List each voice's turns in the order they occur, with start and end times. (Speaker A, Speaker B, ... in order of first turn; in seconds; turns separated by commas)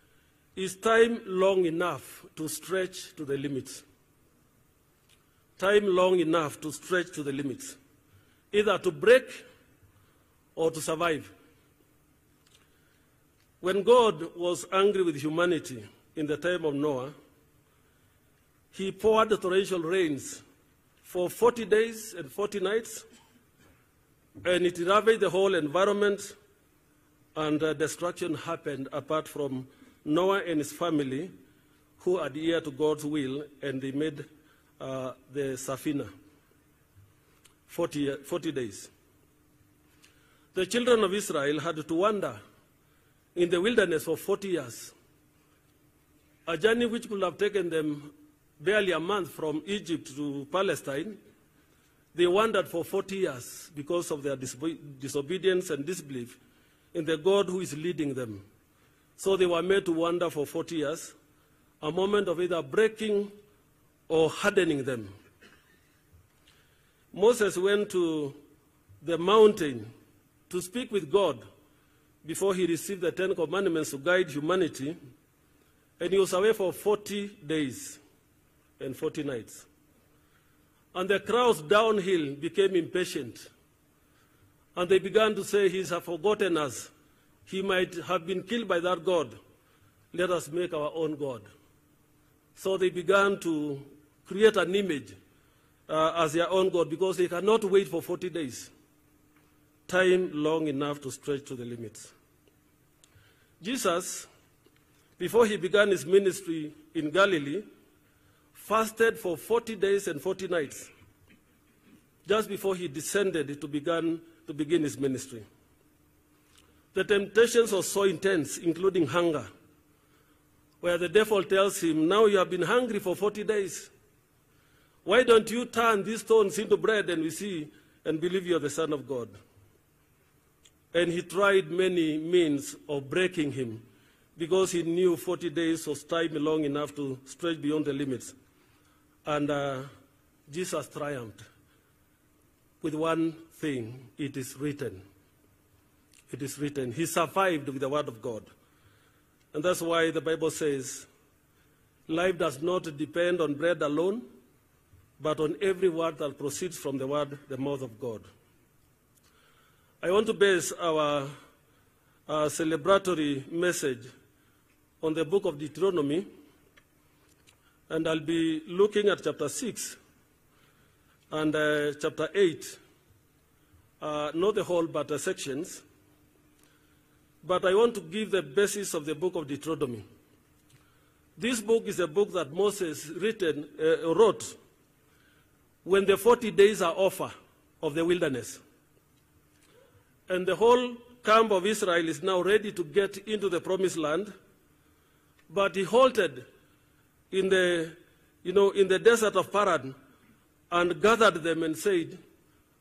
Speaker A: 0.6-3.8, Speaker A: 5.6-7.8, Speaker A: 8.5-9.4, Speaker A: 10.6-11.3, Speaker A: 13.6-17.1, Speaker A: 18.7-20.4, Speaker A: 21.0-23.0, Speaker A: 24.4-26.3, Speaker A: 27.3-31.3, Speaker A: 32.0-34.2, Speaker A: 34.8-36.1, Speaker A: 37.7-38.9, Speaker A: 40.5-42.4, Speaker A: 43.3-44.9, Speaker A: 46.5-51.2, Speaker A: 52.1-56.4, Speaker A: 56.9-58.4, Speaker A: 59.2-61.1, Speaker A: 61.8-63.3, Speaker A: 64.1-65.1, Speaker A: 67.1-68.4, Speaker A: 69.0-69.9, Speaker A: 70.5-71.4, Speaker A: 72.2-75.0, Speaker A: 76.0-78.0, Speaker A: 78.8-79.7, Speaker A: 80.9-83.5, Speaker A: 84.7-86.9, Speaker A: 87.5-89.3, Speaker A: 90.1-91.5, Speaker A: 92.5-95.2, Speaker A: 95.9-98.7, Speaker A: 99.9-102.1, Speaker A: 103.6-104.3, Speaker A: 105.2-107.6, Speaker A: 108.5-110.9, Speaker A: 112.2-115.5, Speaker A: 116.9-119.5, Speaker A: 120.8-123.9, Speaker A: 125.0-129.3, Speaker A: 130.9-133.8, Speaker A: 134.3-138.3, Speaker A: 139.2-139.9, Speaker A: 140.5-141.4, Speaker A: 142.8-145.0, Speaker A: 146.3-148.5, Speaker A: 149.5-151.1, Speaker A: 152.1-154.2, Speaker A: 155.2-158.2, Speaker A: 160.0-161.3, Speaker A: 162.3-164.1, Speaker A: 165.0-166.3, Speaker A: 167.9-170.0, Speaker A: 171.3-172.8, Speaker A: 174.0-175.8, Speaker A: 177.4-180.0, Speaker A: 181.4-184.6, Speaker A: 185.8-188.6, Speaker A: 190.3-194.3, Speaker A: 195.5-196.4, Speaker A: 197.3-199.9, Speaker A: 200.7-202.2